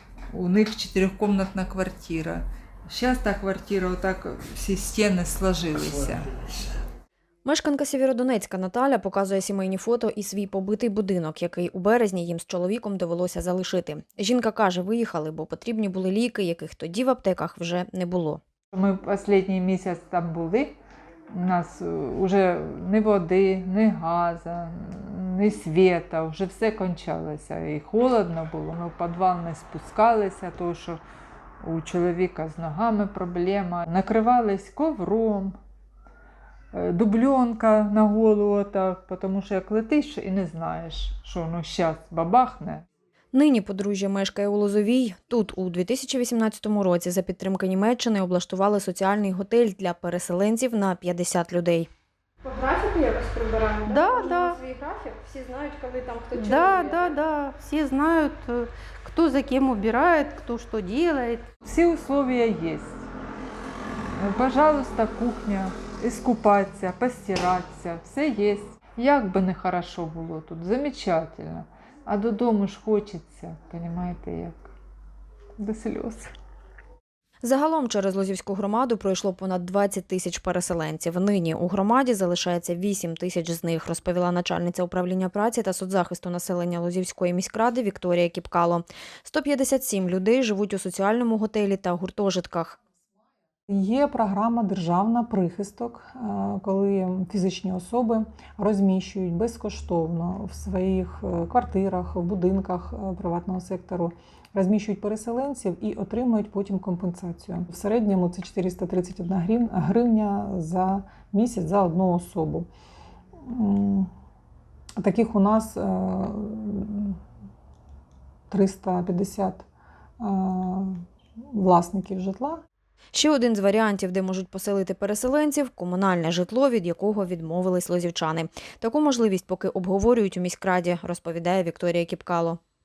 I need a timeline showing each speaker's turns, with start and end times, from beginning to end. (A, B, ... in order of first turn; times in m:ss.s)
0:00.3-0:06.3 A
0:07.4-0:18.4 B
0:18.7-0:20.8 A
0:21.3-0:31.0 A
0:31.6-0:35.6 A
0:36.7-0:42.8 A
0:43.3-0:51.9 B
0:52.4-0:57.1 C
0:53.8-0:54.6 D
0:56.3-1:01.5 D
1:01.6-1:03.1 A
1:04.1-1:14.7 A
1:15.6-1:16.3 A
1:17.4-1:32.8 B
1:33.7-1:52.7 E
1:53.4-1:54.1 E
1:55.0-1:57.2 E
1:58.5-1:59.6 E
2:00.2-2:02.6 E
2:03.1-2:12.6 B